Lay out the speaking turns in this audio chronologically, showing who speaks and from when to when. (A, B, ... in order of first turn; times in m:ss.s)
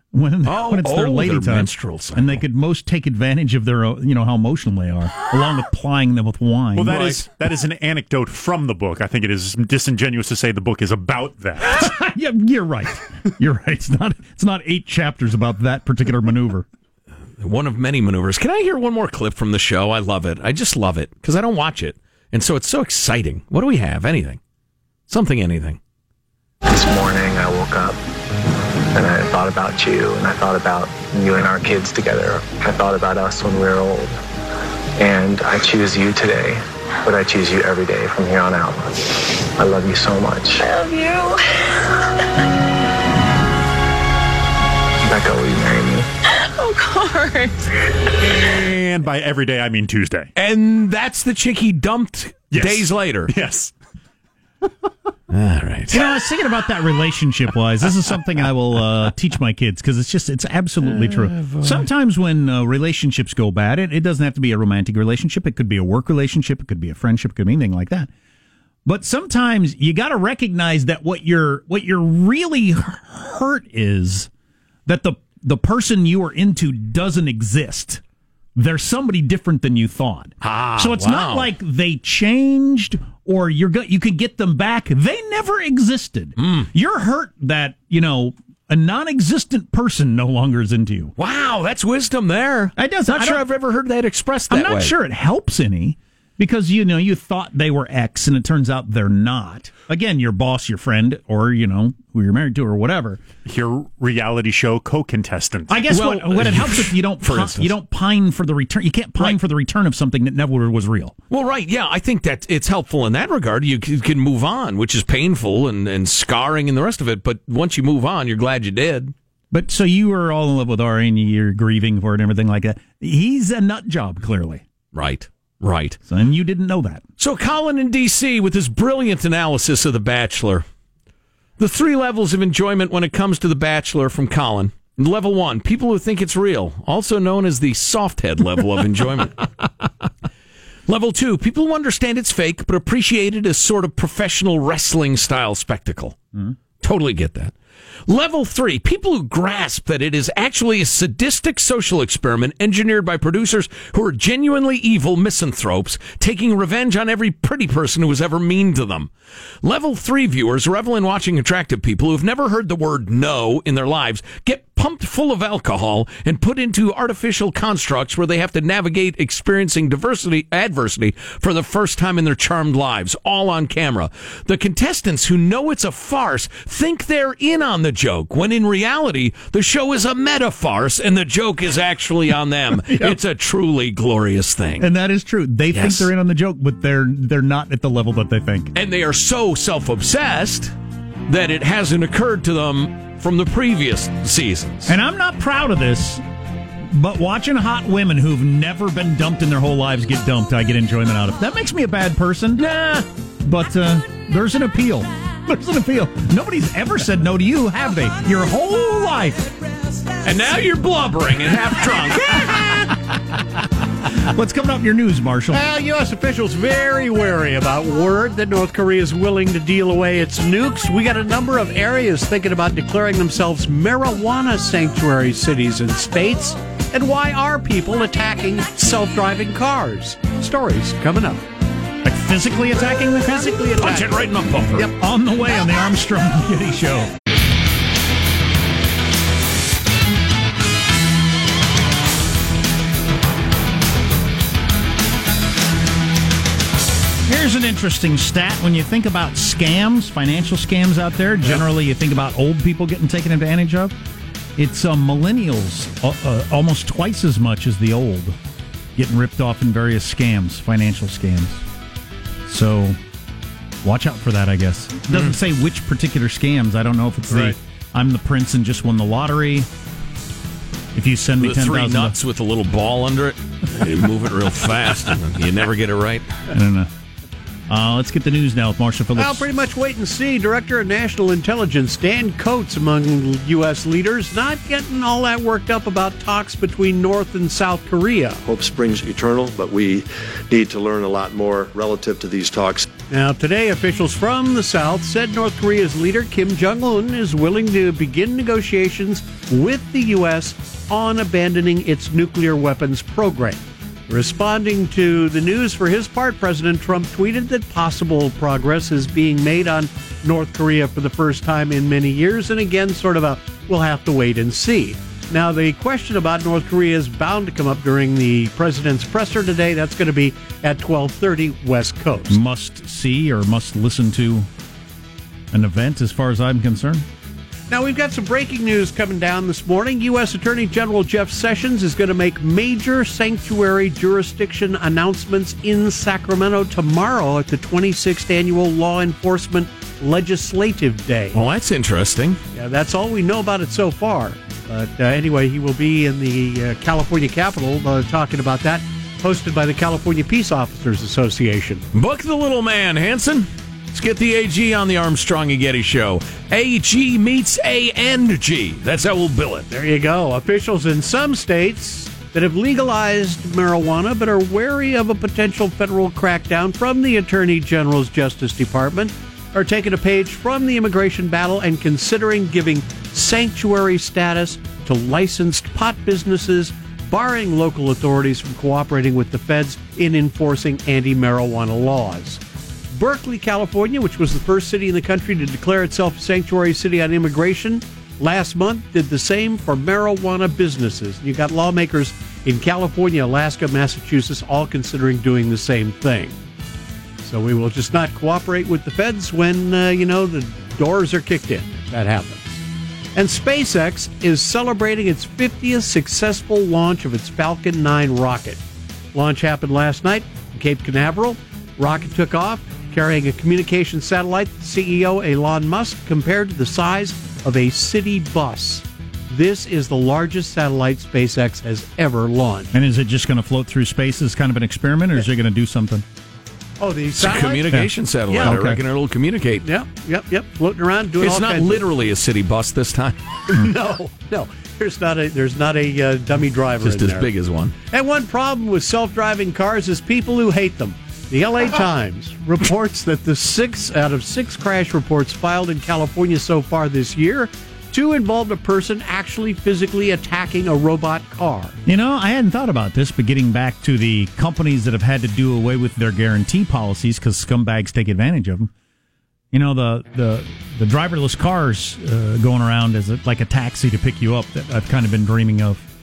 0:00.1-0:07.1 A
0:00.4-0:02.4 B
0:06.7-0:11.8 C
0:06.9-0:07.2 B
0:11.6-0:16.6 A
0:17.4-0:24.4 B
0:25.1-0:25.8 B
0:26.6-0:28.0 D
0:28.9-0:34.2 D
0:35.0-0:40.6 D
0:40.6-0:41.7 E
0:45.0-0:46.1 D
0:46.4-0:47.6 E
0:48.2-0:50.3 C
0:50.4-0:53.3 B
0:52.5-0:53.7 C
0:55.3-0:56.0 B
0:55.9-1:08.1 A
1:00.8-1:01.9 B
1:08.8-1:14.3 A
1:14.9-1:18.0 A
1:18.6-1:31.1 A
1:20.4-1:21.5 B
1:26.4-1:26.7 B
1:31.2-1:34.9 B
1:32.8-1:33.4 A
1:34.5-1:43.2 A
1:43.4-1:45.8 C
1:45.7-1:51.2 A
1:45.9-1:47.7 B
1:51.3-1:59.1 B
1:59.5-2:04.6 A
2:04.9-2:06.0 B
2:06.1-2:07.0 A
2:07.2-2:10.6 B
2:11.6-2:19.4 B
2:20.9-2:26.2 B
2:26.8-2:27.5 B
2:28.1-2:39.1 B
2:39.6-3:04.9 B
3:02.8-3:03.2 A
3:04.8-3:08.7 A
3:05.7-3:06.1 B
3:08.7-3:10.7 B
3:11.3-3:14.9 B
3:14.9-3:16.2 A
3:16.9-3:22.6 A
3:22.6-3:23.1 B
3:23.4-3:29.5 A
3:30.2-3:32.6 B
3:32.3-3:32.8 A
3:34.3-3:35.6 A
3:35.5-3:51.4 F
3:52.0-3:53.8 A
3:53.3-3:54.2 F
3:53.8-3:54.9 B
3:54.8-3:57.1 A
4:07.3-4:13.9 A
4:14.6-4:18.4 A
4:19.0-4:21.6 A
4:22.4-4:23.0 A
4:23.8-4:29.7 A
4:30.9-4:32.2 A
4:31.4-4:36.3 B
4:36.5-4:36.9 A
4:37.7-4:39.5 A
4:39.2-4:48.4 F
4:48.4-4:52.8 G
4:53.1-5:22.4 F
5:22.3-5:24.5 A
5:25.5-5:27.0 A
5:27.7-5:41.4 F
5:41.3-5:42.4 B
5:42.6-5:51.8 F
5:51.9-5:59.7 B
5:59.7-6:22.4 F
6:22.9-6:36.4 F
6:37.2-6:42.6 F
6:43.1-6:48.6 F
6:49.1-7:02.7 F
7:02.7-7:06.0 A
7:06.8-7:07.7 F
7:07.2-7:09.6 B
7:08.3-7:08.6 F
7:08.4-7:08.8 A
7:09.6-7:11.8 F
7:11.2-7:13.2 B
7:13.5-7:17.3 F
7:16.8-7:17.7 B
7:17.9-7:31.8 F
7:31.9-7:38.7 A
7:39.5-7:45.8 A